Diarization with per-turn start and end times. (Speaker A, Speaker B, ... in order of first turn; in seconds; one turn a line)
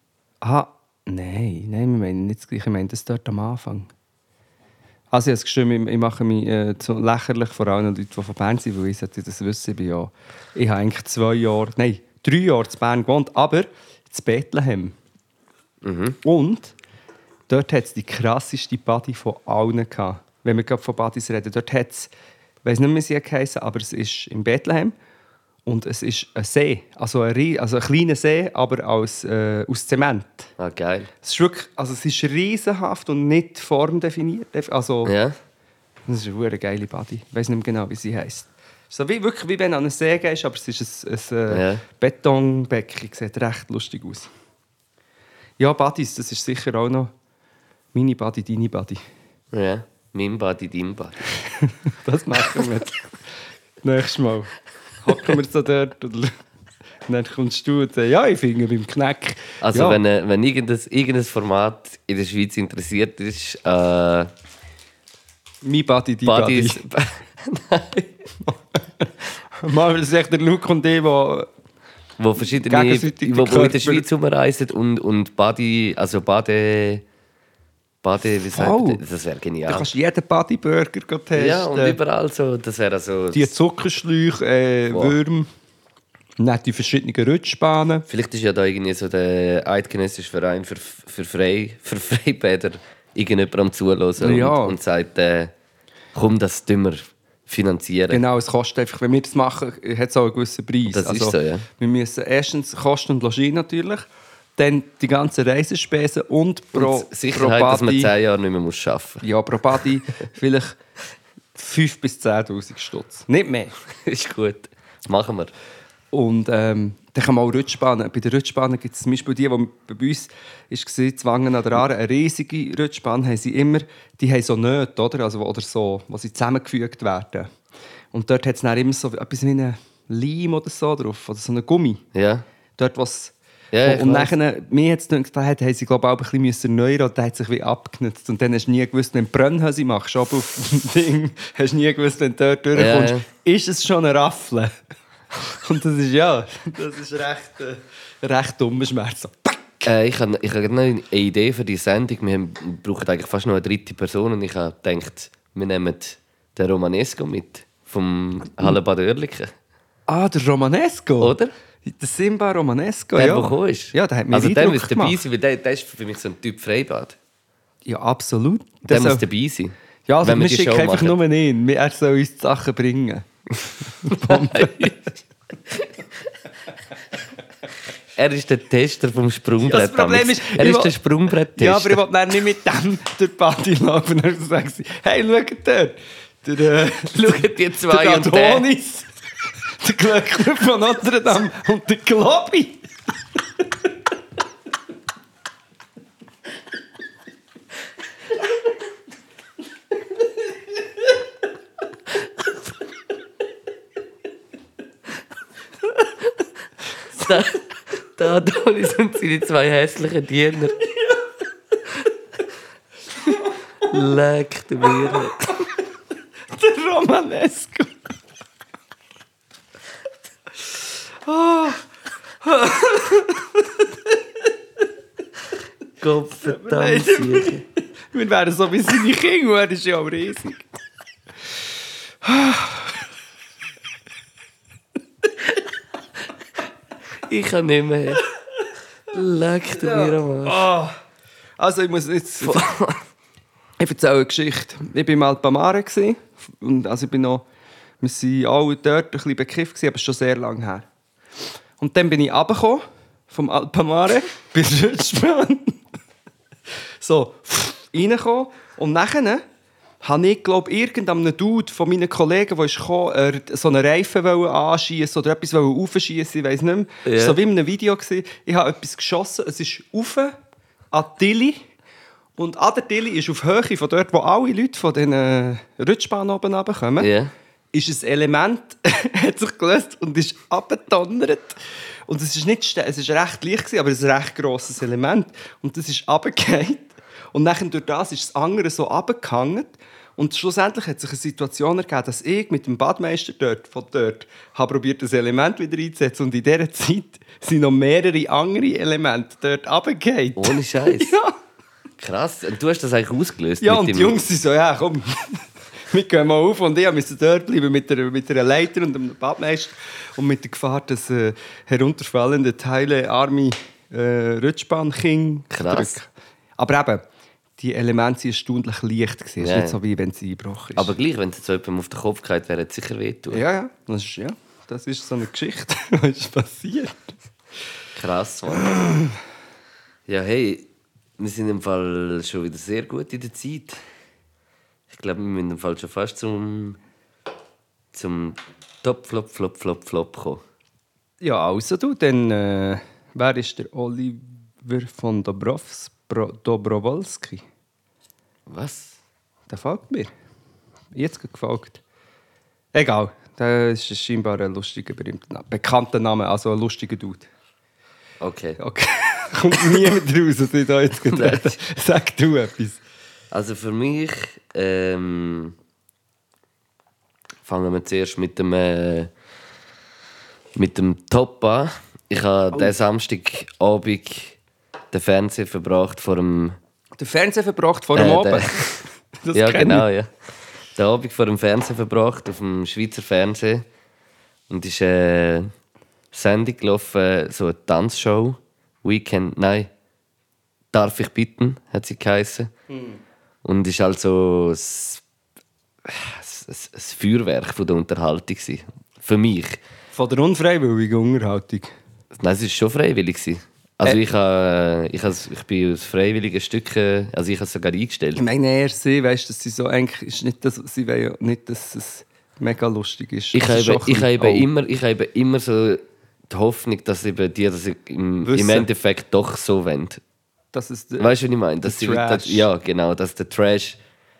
Speaker A: 0.4-3.9
Speaker A: 5.1-14.9
Speaker B: 15.8-16.2
Speaker A: 16.2-16.7
Speaker A: 17.5-22.1
Speaker A: 22.6-24.9
Speaker A: 25.6-30.5
Speaker B: 30.6-31.1
Speaker A: 31.2-35.1
Speaker B: 35.0-35.4
Speaker A: 36.1-44.3
Speaker B: 41.5-41.8
Speaker A: 45.6-47.1
Speaker A: 47.9-49.0
Speaker B: 49.5-51.3
Speaker A: 51.6-53.0
Speaker A: 53.8-54.5
Speaker A: 55.0-56.4
Speaker A: 57.1-60.0
Speaker B: 59.6-64.3
Speaker A: 65.6-66.8
Speaker B: 66.2-68.1
Speaker A: 68.4-71.5
Speaker B: 72.2-77.0
Speaker A: 72.7-74.0
Speaker B: 78.0-79.9
Speaker A: 78.5-79.0
Speaker A: 79.7-82.0
Speaker B: 81.3-83.5
Speaker A: 83.3-85.5
Speaker B: 84.9-85.2
Speaker A: 86.4-88.0
Speaker B: 88.1-95.5
Speaker A: 94.2-94.8
Speaker B: 96.1-98.2
Speaker A: 98.1-108.1
Speaker B: 100.8-101.7
Speaker B: 106.7-109.2
Speaker A: 109.2-110.8
Speaker A: 111.5-113.7
Speaker B: 113.9-115.5
Speaker A: 116.1-127.5
Speaker A: 128.1-132.0
Speaker B: 132.1-132.4
Speaker A: 132.8-144.7
Speaker B: 133.7-134.3
Speaker B: 142.7-143.2
Speaker A: 145.3-149.9
Speaker B: 149.8-159.5
Speaker A: 160.1-165.2
Speaker B: 161.2-161.5
Speaker B: 163.2-167.2
Speaker A: 167.8-169.2
Speaker B: 168.9-171.2
Speaker A: 170.1-173.3
Speaker A: 174.0-175.0
Speaker B: 174.1-175.1
Speaker B: 178.1-182.0
Speaker A: 179.6-180.9
Speaker A: 181.5-189.1
Speaker B: 187.1-188.7
Speaker A: 189.8-192.8
Speaker B: 207.1-210.8
Speaker B: 213.8-215.7
Speaker A: 216.5-217.9
Speaker A: 221.2-221.8
Speaker A: 222.4-224.2
Speaker B: 226.0-227.6
Speaker A: 226.4-230.6
Speaker A: 232.2-233.0
Speaker B: 237.2-238.2
Speaker B: 239.1-240.7
Speaker A: 239.7-241.0
Speaker A: 241.6-242.7
Speaker B: 242.4-243.0
Speaker A: 243.8-247.4
Speaker A: 248.0-250.8
Speaker A: 251.8-255.8
Speaker A: 257.0-259.4
Speaker A: 260.0-270.4
Speaker B: 267.0-267.4
Speaker A: 270.9-271.6
Speaker A: 272.4-277.1
Speaker B: 277.0-277.3
Speaker A: 277.7-301.4
Speaker B: 300.4-301.1
Speaker B: 302.0-304.2
Speaker A: 303.6-317.0
Speaker B: 315.5-315.9
Speaker A: 317.6-320.9
Speaker B: 319.4-319.8
Speaker B: 320.8-323.4
Speaker A: 323.3-327.1
Speaker B: 327.9-328.8
Speaker A: 328.6-329.1
Speaker B: 330.1-333.8
Speaker B: 334.9-336.8
Speaker B: 337.9-340.4
Speaker A: 341.2-347.4
Speaker B: 348.5-349.0
Speaker A: 349.5-350.1
Speaker A: 350.9-351.8
Speaker A: 352.7-357.3
Speaker B: 358.2-358.6
Speaker A: 358.6-362.8
Speaker B: 361.1-361.6
Speaker B: 363.3-365.6
Speaker B: 367.4-369.1
Speaker B: 370.5-374.4
Speaker B: 374.9-376.6
Speaker A: 377.0-379.9
Speaker B: 377.9-380.1
Speaker B: 380.7-383.6
Speaker B: 384.5-385.5
Speaker B: 386.1-389.7
Speaker B: 390.7-392.5
Speaker A: 392.7-393.0
Speaker B: 393.4-395.0
Speaker B: 395.8-399.6
Speaker A: 399.9-401.7
Speaker B: 402.1-408.2
Speaker A: 408.1-414.5
Speaker B: 413.3-420.0
Speaker A: 418.2-418.7
Speaker A: 420.5-422.5
Speaker B: 421.0-423.8